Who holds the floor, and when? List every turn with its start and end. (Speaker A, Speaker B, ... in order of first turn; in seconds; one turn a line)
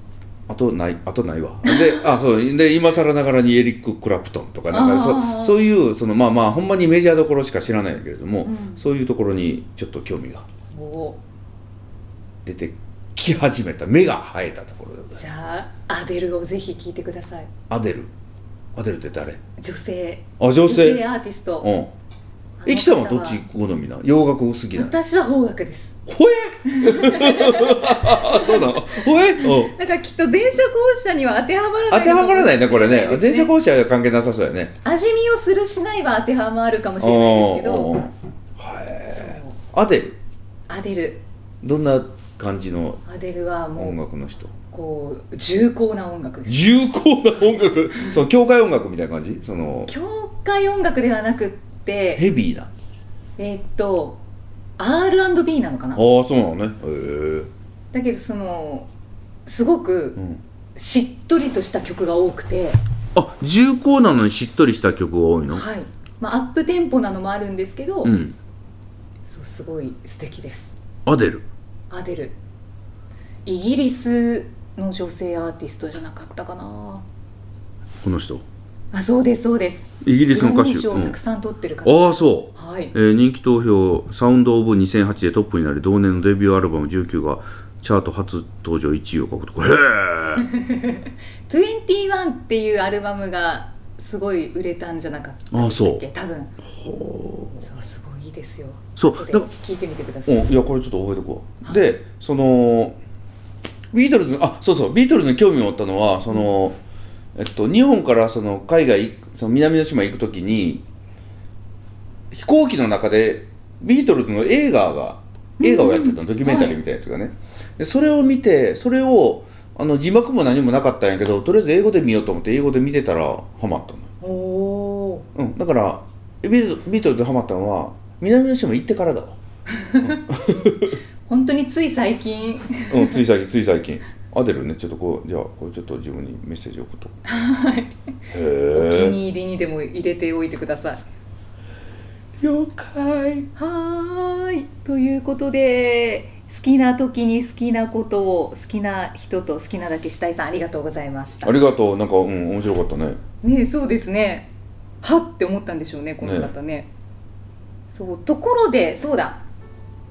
Speaker A: 0.5-10.4
Speaker B: 1.6-2.0
Speaker B: 4.7-5.6
Speaker B: 8.4-8.8
Speaker B: 10.7-11.2
Speaker A: 12.4-15.2
Speaker B: 15.1-17.5
Speaker A: 17.7-18.1
Speaker A: 18.7-19.4
Speaker B: 19.6-21.7
Speaker A: 20.4-21.0
Speaker A: 21.6-21.9
Speaker B: 22.6-23.4
Speaker A: 22.6-24.9
Speaker B: 24.7-25.9
Speaker A: 26.1-29.7
Speaker B: 26.7-33.5
Speaker A: 31.9-34.7
Speaker B: 34.8-38.0
Speaker A: 37.0-40.1
Speaker B: 39.1-39.6
Speaker B: 40.7-41.2
Speaker A: 41.6-43.0
Speaker B: 43.0-44.0
Speaker A: 43.8-44.5
Speaker B: 44.7-46.6
Speaker A: 46.5-49.9
Speaker B: 49.9-52.2
Speaker A: 52.1-52.7
Speaker B: 53.4-54.2
Speaker B: 54.8-56.0
Speaker A: 55.9-57.5
Speaker B: 57.9-58.9
Speaker B: 59.5-60.2
Speaker B: 60.8-62.8
Speaker A: 63.1-65.6
Speaker B: 65.5-68.2
Speaker A: 68.0-68.3
Speaker B: 69.2-70.7
Speaker A: 71.0-71.5
Speaker B: 71.9-72.3
Speaker B: 73.4-77.0
Speaker A: 78.0-78.4
Speaker B: 78.9-82.9
Speaker A: 80.0-81.2
Speaker A: 81.8-90.5
Speaker B: 90.5-96.5
Speaker A: 95.5-96.0
Speaker A: 96.8-97.6
Speaker B: 97.6-100.4
Speaker A: 99.0-99.5
Speaker A: 100.2-103.0
Speaker B: 101.6-101.9
Speaker A: 103.9-106.8
Speaker A: 107.3-110.8
Speaker A: 112.3-124.1
Speaker B: 115.6-116.8
Speaker B: 124.2-125.2
Speaker A: 125.3-129.4
Speaker B: 129.8-130.2
Speaker A: 130.0-131.0
Speaker B: 131.3-133.2
Speaker A: 132.9-137.1
Speaker B: 137.2-137.9
Speaker A: 138.3-139.2
Speaker B: 138.7-141.0
Speaker A: 142.4-143.5
Speaker B: 143.6-151.6
Speaker A: 151.4-153.2
Speaker B: 153.4-154.5
Speaker B: 155.0-156.9
Speaker A: 156.2-156.5
Speaker B: 157.9-159.4